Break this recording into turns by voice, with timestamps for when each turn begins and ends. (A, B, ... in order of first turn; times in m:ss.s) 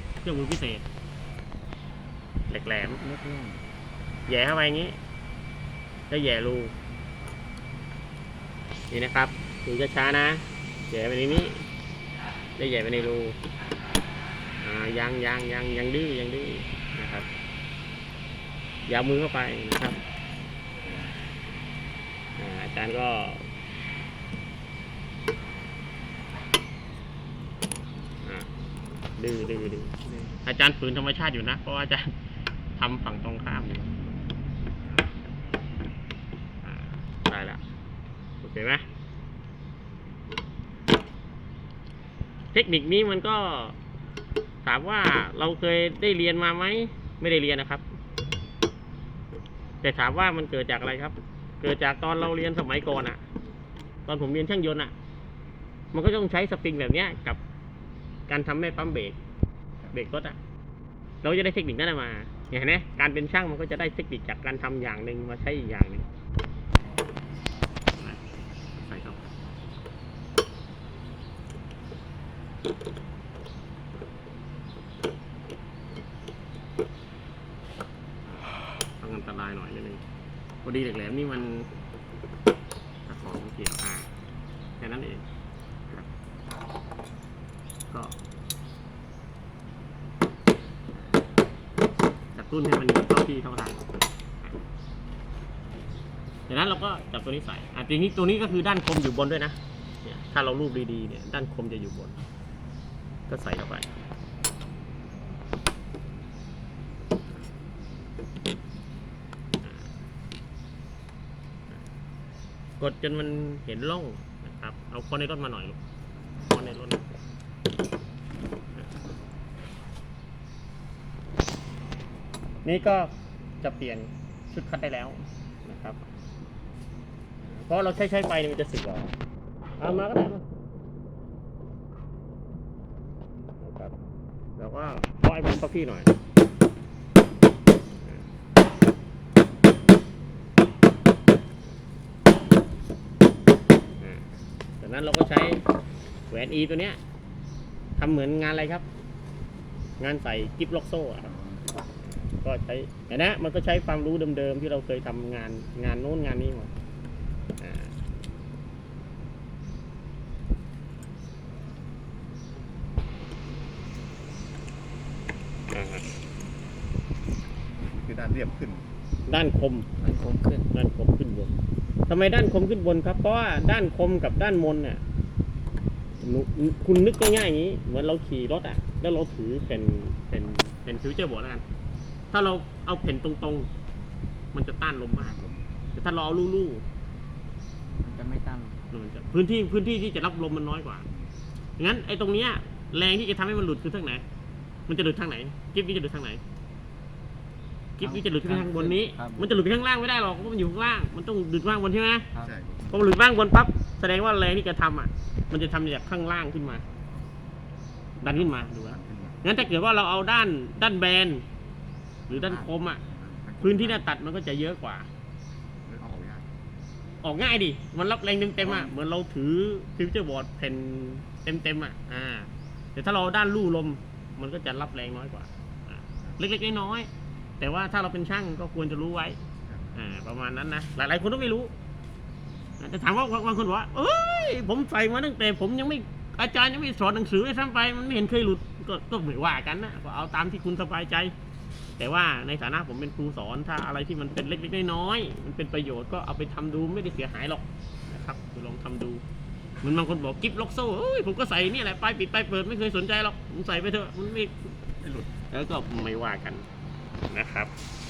0:00.2-0:00.8 A
0:02.5-0:03.0 A
0:03.0-0:03.6 B
0:04.3-0:05.0 A
0:06.1-0:06.7 A
0:08.9-0:11.6 A
0:12.6-0:13.4 A
0:14.6-0:17.3 A
0:18.9-0:20.0 A
0:22.4-0:23.4 A
0:28.2-0:28.5 A
0:29.2-0:29.9 A
0:30.4-0:32.1 A
0:32.8-0:33.9 A
0:36.6-0:37.6 A
0:38.4-0:38.8 A
0:42.5-0:43.8 A
0:44.6-0:47.8 A
0:49.8-0:53.2 A
0:54.0-0:54.9 A
0:55.9-0:57.4 A
0:58.3-0:59.2 A
0:59.9-1:00.4 A
1:01.2-1:06.0 A
1:08.8-1:09.2 A
1:18.3-1:20.0 A
1:20.6-1:21.7 A
1:23.1-1:24.1 A
1:24.8-1:25.2 A
1:27.9-1:28.2 A
1:32.3-1:33.9 A
1:36.5-1:42.2 A
1:43.3-1:43.9 A
1:49.6-1:49.9 A
1:52.8-1:55.8 A
1:56.4-1:57.0 A
2:02.6-2:06.0 A
2:07.6-2:09.1 A
2:09.8-2:10.4 A
2:13.6-2:13.9 A
2:14.6-2:16.1 A
2:24.8-2:25.6 A
2:26.3-2:27.0 A
2:28.0-2:28.8 A
2:30.0-2:31.4 A
2:31.4-2:31.8 C
2:32.3-2:36.7 A
2:37.6-2:37.9 A
2:45.7-2:46.0 A
2:47.8-2:48.9 C
2:49.3-2:49.9 A
2:50.0-2:50.7 B
2:50.7-2:51.5 A
2:52.1-2:55.0 A
2:56.2-3:01.6 A
3:02.3-3:03.7 A
3:04.5-3:05.4 A
3:05.4-3:05.7 C
3:05.9-3:06.8 A
3:08.0-3:08.8 B
3:08.9-3:11.1 A
3:11.8-3:14.2 A
3:14.9-3:16.4 A
3:18.0-3:22.3 A
3:18.0-3:19.5 B
3:22.3-3:22.6 B
3:22.4-3:22.9 C
3:22.9-3:26.8 A
3:28.2-3:31.4 A
3:29.0-3:29.4 C
3:32.3-3:33.0 A
3:33.1-3:33.8 C
3:33.6-3:35.1 A
3:35.8-3:36.5 C
3:37.2-3:49.4 A
3:49.9-3:51.7 A
3:52.8-4:01.3 A
4:02.0-4:09.2 A
4:09.8-4:14.8 A
4:15.0-4:15.3 C
4:15.5-4:16.6 A
4:17.3-4:17.7 A